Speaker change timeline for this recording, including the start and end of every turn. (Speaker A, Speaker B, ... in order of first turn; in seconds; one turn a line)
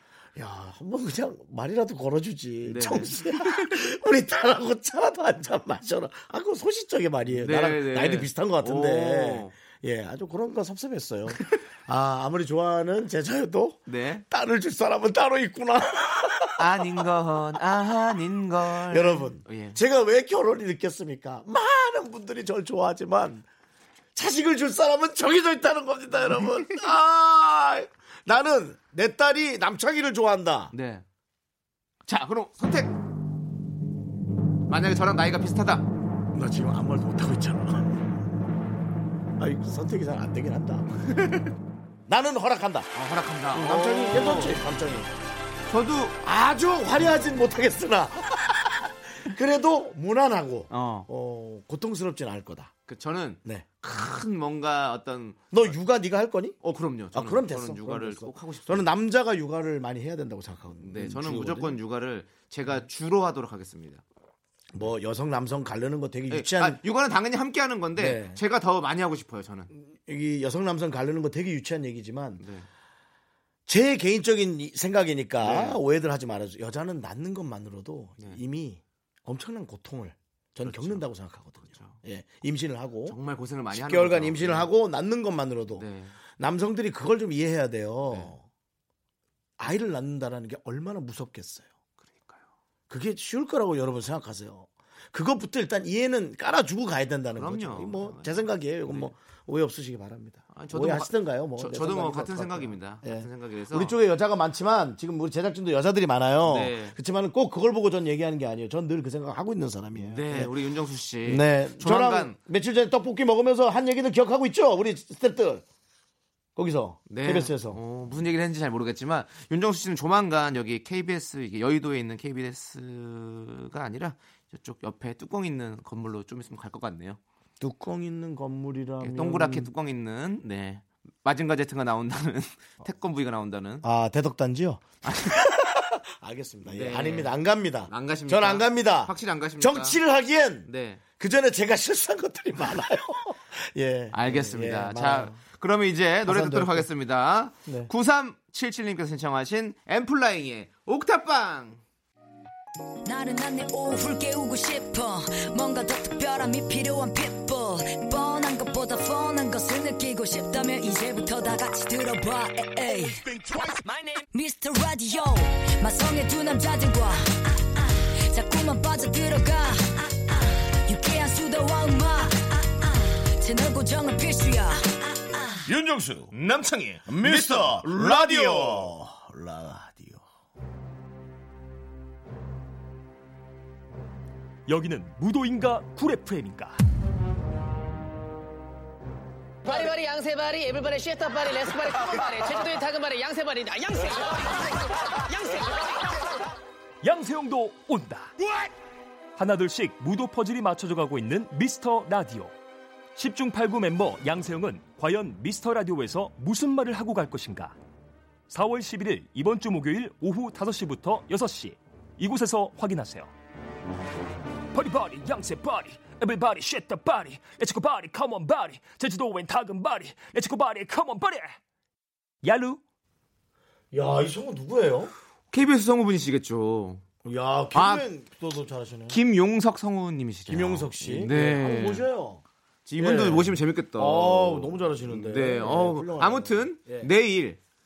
Speaker A: 0.4-16.9
Speaker B: 2.6-3.8
Speaker B: 7.3-9.6
Speaker B: 13.9-14.2
Speaker B: 16.6-19.8
Speaker A: 18.8-23.5
Speaker A: 24.1-30.7
Speaker B: 30.7-31.1
Speaker B: 32.1-33.0
Speaker B: 34.7-35.9
Speaker A: 36.3-38.3
Speaker A: 39.4-41.1
Speaker A: 42.1-42.9
Speaker B: 43.0-44.6
Speaker A: 43.5-45.1
Speaker B: 45.7-46.2
Speaker A: 46.2-52.7
Speaker B: 50.7-51.1
Speaker B: 52.9-55.8
Speaker A: 55.5-56.6
Speaker B: 56.6-58.9
Speaker A: 57.1-61.8
Speaker B: 60.8-64.0
Speaker A: 64.7-66.8
Speaker B: 66.3-69.7
Speaker A: 68.0-68.4
Speaker A: 69.7-72.4
Speaker B: 72.4-72.7
Speaker A: 73.7-83.2
Speaker B: 75.4-75.8
Speaker B: 80.6-81.1
Speaker B: 81.6-82.0
Speaker B: 83.1-84.7
Speaker A: 83.7-85.9
Speaker B: 85.8-86.2
Speaker A: 86.4-88.5
Speaker B: 88.1-88.3
Speaker A: 89.6-91.7
Speaker B: 92.0-92.4
Speaker A: 92.9-110.5
Speaker B: 97.3-99.2
Speaker B: 100.5-104.0
Speaker B: 106.5-107.0
Speaker B: 110.0-112.4
Speaker A: 111.2-115.7
Speaker A: 116.6-117.8
Speaker B: 117.1-127.2
Speaker A: 127.6-129.7
Speaker B: 129.0-133.8
Speaker A: 133.8-145.4
Speaker B: 135.0-135.4
Speaker B: 136.7-137.3
Speaker B: 137.9-140.0
Speaker B: 140.7-141.0
Speaker B: 144.1-151.8
Speaker A: 146.2-146.9
Speaker A: 147.7-147.9
Speaker C: 153.1-163.2
Speaker C: 164.3-175.7
Speaker A: 175.7-176.3
Speaker B: 176.3-178.9
Speaker A: 177.1-180.2
Speaker D: 184.7-186.8
Speaker E: 189.7-194.7
Speaker E: 195.2-196.2
Speaker D: 197.0-198.3
Speaker D: 199.4-202.5
Speaker D: 203.2-207.8
Speaker D: 208.5-213.3
Speaker D: 214.7-221.6
Speaker D: 222.4-222.8
Speaker A: 223.9-225.1
Speaker B: 225.5-227.0
Speaker A: 227.2-229.2
Speaker B: 227.7-228.1
Speaker B: 229.1-232.1
Speaker A: 230.5-232.4
Speaker B: 232.9-237.6
Speaker A: 233.0-237.1